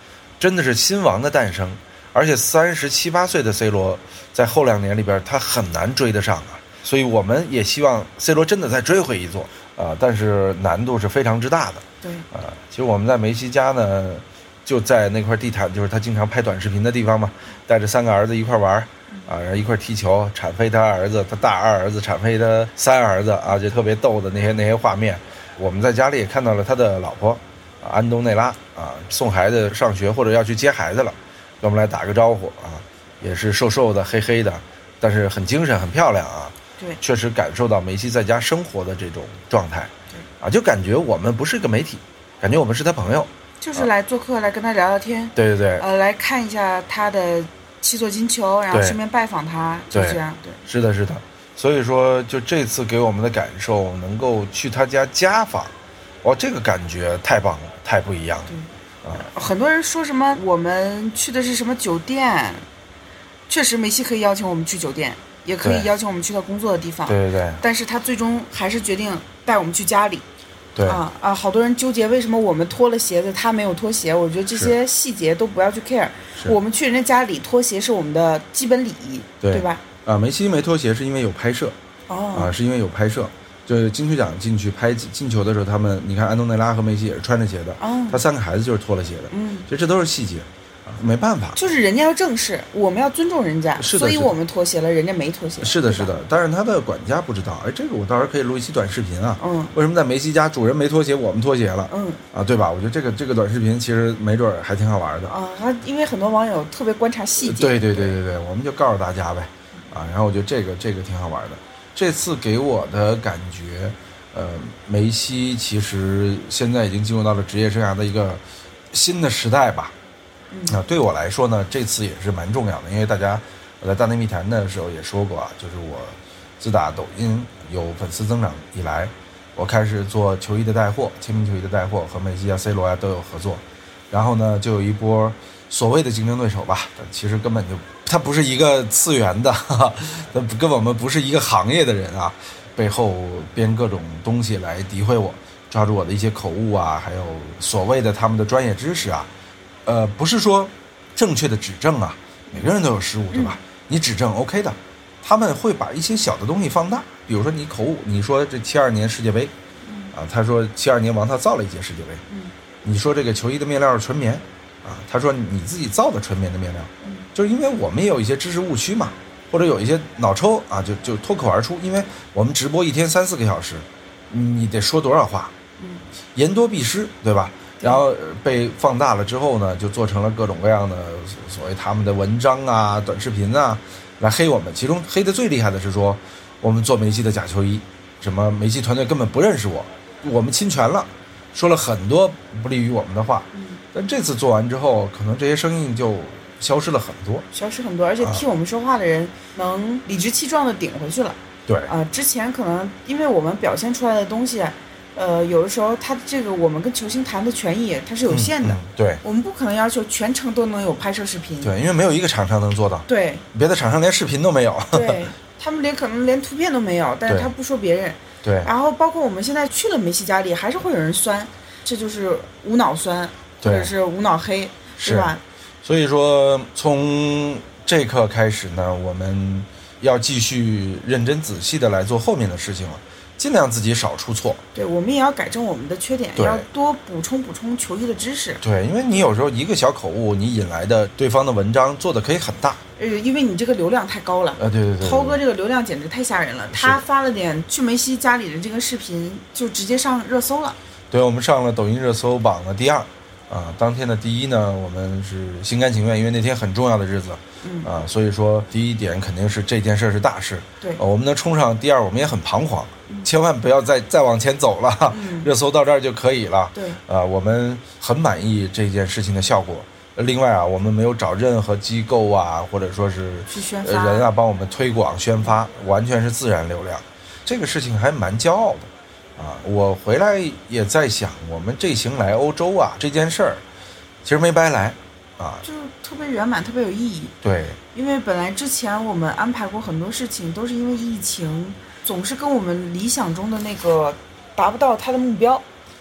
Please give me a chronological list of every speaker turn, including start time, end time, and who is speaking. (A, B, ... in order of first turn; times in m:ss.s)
0:00.4-0:43.9 A
0:12.0-0:12.3 B
0:43.6-0:50.6 B
0:45.4-0:45.8 A
0:48.7-0:49.0 A
0:49.9-0:58.5 A
0:58.5-1:02.6 B
1:03.5-1:10.2 B
1:05.6-1:05.9 A
1:07.1-1:07.6 A
1:10.8-1:11.0 A
1:10.8-1:19.8 B
1:19.4-1:21.8 A
1:22.1-1:22.5 B
1:22.3-1:31.6 A
1:27.8-1:28.2 B
1:29.3-1:29.7 B
1:31.6-1:36.1 B
1:33.8-1:34.4 A
1:35.6-1:45.3 A
1:39.4-1:39.7 B
1:41.9-1:42.2 B
1:45.3-1:48.2 B
1:47.4-1:59.9 A
2:00.5-2:00.8 B
2:00.7-2:29.3 A
2:29.9-2:39.5 A
2:33.3-2:33.6 B
2:39.8-2:40.1 B
2:40.1-2:42.2 A
2:42.3-2:42.5 B
2:42.8-2:55.5 A
2:55.8-2:56.0 B
2:56.3-3:17.5 A
3:13.5-3:13.8 B
3:17.5-3:31.8 B
3:28.3-3:29.2 A
3:31.6-3:35.3 A
3:33.1-3:33.4 B
3:34.9-3:45.4 B
3:38.4-3:38.7 A
3:43.6-3:43.9 A
3:45.0-3:54.6 A
3:54.7-3:58.6 B
3:56.4-3:56.7 A
3:58.6-4:02.8 A
4:03.0-4:10.8 B
4:04.6-4:05.4 A
4:06.7-4:07.0 A
4:11.1-4:43.6 A
4:17.6-4:17.9 B
4:25.1-4:25.5 B
4:26.8-4:27.0 B
4:33.5-4:34.3 B
4:44.2-4:45.6 A
4:45.6-4:47.3 B
4:47.4-4:47.8 A
4:47.9-4:55.6 B